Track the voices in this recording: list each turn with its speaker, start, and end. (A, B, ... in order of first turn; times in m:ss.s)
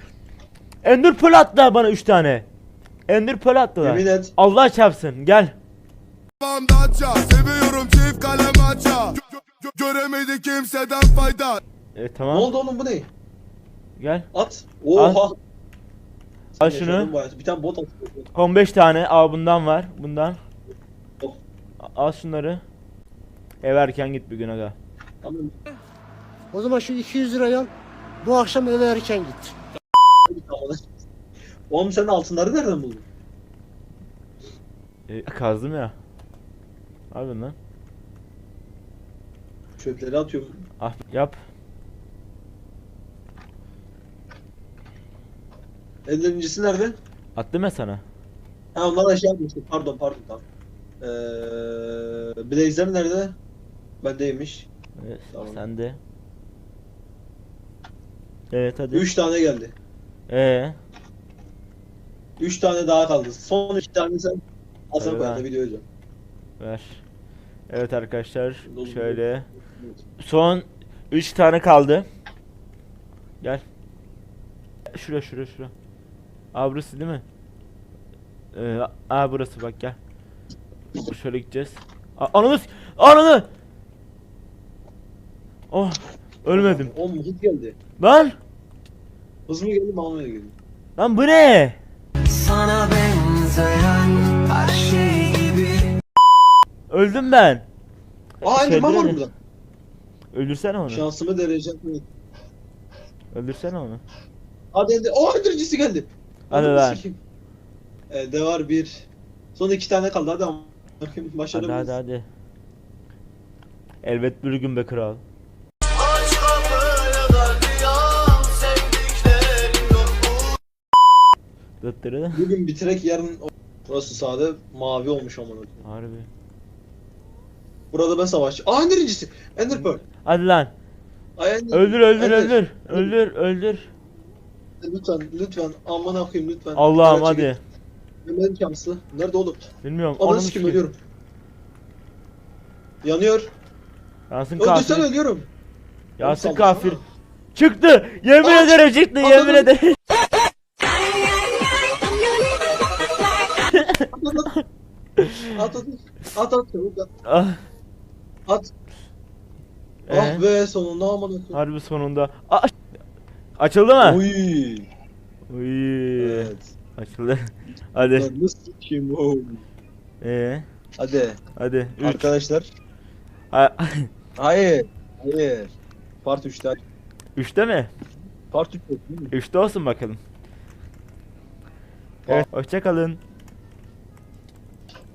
0:00.8-0:02.4 A
0:03.1-0:05.5 A
0:03.8-0:04.3 B
0:06.4-0:11.6 C
0:12.0-0:12.5 A
0:12.2-0:13.1 B
0:14.0-0:14.3 A
0:14.3-0:15.4 B
0:15.0-0:15.2 A
0:16.6-0:18.3 B
0:16.6-0:17.1 A
0:18.3-0:20.4 A
0:21.8-0:22.6 A
0:23.6-0:24.8 A
0:25.2-0:25.5 B
0:26.5-0:27.7 D
0:28.2-0:29.5 D
0:30.3-0:30.8 B
0:31.7-0:33.0 B
0:35.1-0:35.9 A
0:37.1-0:37.5 A
0:39.8-0:40.6 B
0:40.8-0:41.4 A
0:46.1-0:47.0 B
0:47.4-0:48.0 A
0:48.7-0:50.4 B
0:51.0-0:53.4 B
0:54.0-0:54.7 B
0:55.0-0:56.0 A
0:55.3-0:55.6 B
0:58.5-0:59.0 A
0:58.9-0:59.7 B
1:00.3-1:00.8 A
1:02.4-1:04.4 B
1:04.9-1:05.8 B
1:05.0-1:05.4 A
1:06.6-1:07.0 A
1:07.7-1:09.5 A
1:08.6-1:09.2 B
1:10.2-1:12.0 A
1:14.9-1:15.7 A
1:16.5-1:17.2 A
1:18.5-1:20.0 A
1:21.1-1:23.4 A
1:25.7-1:26.9 A
1:26.5-1:27.8 B
1:28.0-1:28.4 A
1:29.5-1:30.5 B
1:31.0-1:31.8 A
1:32.2-1:35.9 E
1:36.9-1:37.6 A
1:38.4-1:39.2 A
1:38.4-1:39.3 B
1:40.3-1:41.0 A
1:40.9-1:42.0 B
1:43.3-1:44.0 A
1:44.7-1:47.2 B
1:46.5-1:47.0 A
1:48.1-1:49.0 B
1:49.6-1:52.0 B
1:51.5-1:52.2 A
1:54.0-1:55.2 A
1:56.2-1:57.0 E
2:01.8-2:02.4 A
2:02.3-2:05.8 B
2:05.8-2:06.3 A
2:07.9-2:10.0 B
2:10.2-2:10.7 A
2:11.4-2:13.1 B
2:11.7-2:13.9 A
2:14.8-2:17.5 B
2:16.7-2:17.6 A
2:18.2-2:19.6 B
2:19.8-2:20.8 A
2:20.2-2:21.0 B
2:23.0-2:23.5 B
2:24.3-2:25.1 A
2:24.6-2:25.5 B
2:26.2-2:27.0 A
2:26.2-2:27.0 B
2:27.5-2:30.0 A
2:28.4-2:29.7 B
2:33.7-2:34.0 A
2:34.1-2:34.5 B
2:35.2-2:35.5 A
2:35.5-2:37.1 B
2:37.2-2:37.6 A
2:40.1-2:40.4 A
2:40.1-2:41.6 B
2:41.5-2:42.7 A
2:43.6-2:44.2 A
2:44.0-2:44.9 B
2:45.5-2:48.3 A
2:46.2-2:46.7 B
2:48.1-2:49.6 B
2:50.2-2:50.6 A
2:51.0-2:51.4 B
2:51.6-2:52.3 A
2:52.0-2:52.7 B
2:53.5-2:54.1 A
2:54.4-2:55.7 B
2:56.2-2:56.8 B
2:57.4-2:57.9 A
2:58.5-2:59.3 B
2:59.3-3:00.2 A
3:02.3-3:03.2 A